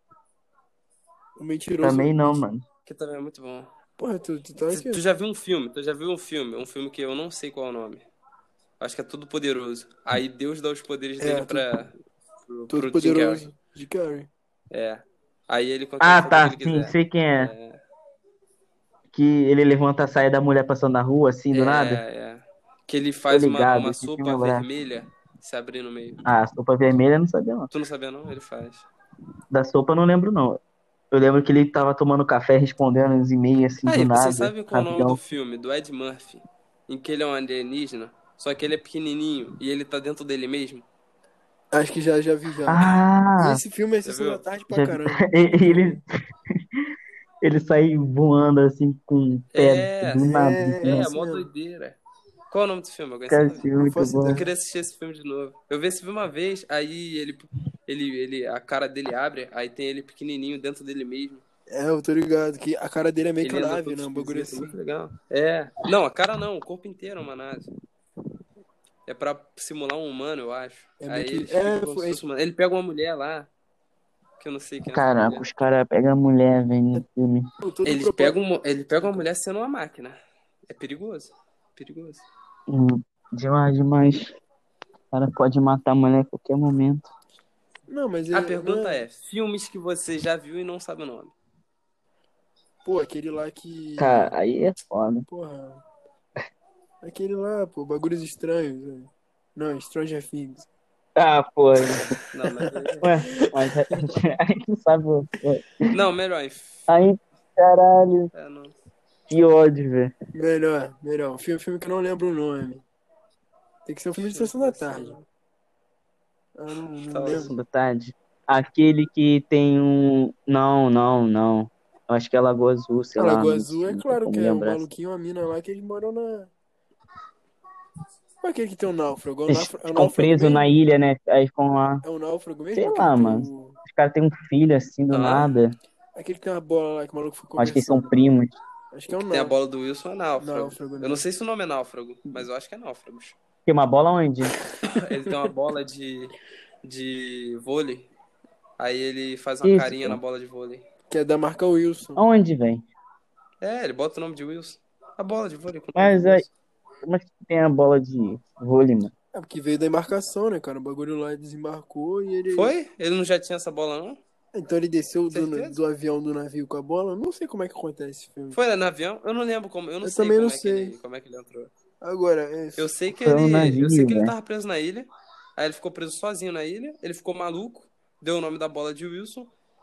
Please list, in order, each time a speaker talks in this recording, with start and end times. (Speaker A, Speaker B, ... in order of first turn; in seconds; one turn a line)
Speaker A: 1.4-2.4
Speaker B: 1.8-2.6
Speaker C: 2.9-3.7
Speaker A: 4.0-5.0
Speaker C: 4.7-8.1
Speaker C: 8.8-11.9
Speaker A: 11.2-11.8
Speaker C: 12.5-13.5
Speaker A: 12.7-14.3
Speaker C: 14.7-17.8
Speaker B: 16.0-17.5
Speaker B: 19.1-22.0
Speaker C: 21.5-26.2
Speaker B: 23.3-24.6
Speaker B: 26.2-27.7
Speaker C: 27.7-28.9
Speaker B: 29.5-30.6
Speaker B: 31.1-35.2
Speaker C: 33.9-40.9
Speaker A: 41.7-45.3
Speaker B: 42.7-43.6
Speaker C: 44.0-44.5
Speaker B: 44.7-46.6
Speaker B: 47.4-51.1
Speaker C: 49.5-52.0
Speaker A: 50.2-51.5
Speaker C: 52.5-53.7
Speaker B: 53.3-54.4
Speaker A: 53.8-54.5
Speaker C: 54.2-61.4
Speaker A: 61.7-64.8
Speaker C: 63.4-67.7
Speaker C: 69.1-73.5
Speaker A: 71.0-72.2
Speaker C: 74.4-75.5
Speaker B: 74.9-77.5
Speaker A: 77.6-78.4
Speaker C: 77.8-80.2
Speaker C: 80.7-82.2
Speaker B: 82.7-84.3
Speaker B: 85.1-87.1
Speaker A: 87.9-89.1
Speaker C: 88.3-91.3
Speaker A: 92.8-94.3
Speaker B: 94.0-95.3
Speaker A: 95.3-95.8
Speaker A: 97.0-100.7
Speaker B: 101.2-102.1
Speaker C: 102.3-103.1
Speaker A: 102.7-104.0
Speaker B: 103.0-105.8
Speaker C: 105.9-106.9
Speaker B: 106.9-108.3
Speaker C: 108.3-108.7
Speaker B: 109.3-110.1
Speaker A: 110.3-112.8
Speaker A: 113.9-115.2
Speaker C: 114.2-115.2
Speaker A: 116.6-117.5
Speaker C: 117.1-117.5
Speaker B: 117.3-124.8
Speaker A: 123.2-126.5
Speaker A: 128.4-130.7
Speaker B: 129.5-132.0
Speaker A: 132.0-133.8
Speaker B: 132.8-135.8
Speaker C: 135.1-135.5
Speaker A: 136.2-138.1
Speaker B: 137.6-138.6
Speaker A: 138.9-139.6
Speaker C: 139.3-143.4
Speaker A: 140.4-141.2
Speaker B: 143.7-144.6
Speaker C: 144.9-148.1
Speaker C: 148.8-150.8
Speaker B: 149.6-150.2
Speaker A: 151.1-152.2
Speaker B: 152.2-152.9
Speaker C: 153.6-156.5
Speaker B: 156.0-156.5
Speaker B: 157.0-159.1
Speaker A: 159.3-162.8
Speaker C: 162.5-164.2
Speaker A: 164.5-168.6
Speaker C: 165.3-165.8
Speaker C: 168.5-171.7
Speaker A: 170.0-170.9
Speaker A: 172.0-172.9
Speaker C: 172.8-179.5
Speaker B: 173.1-174.3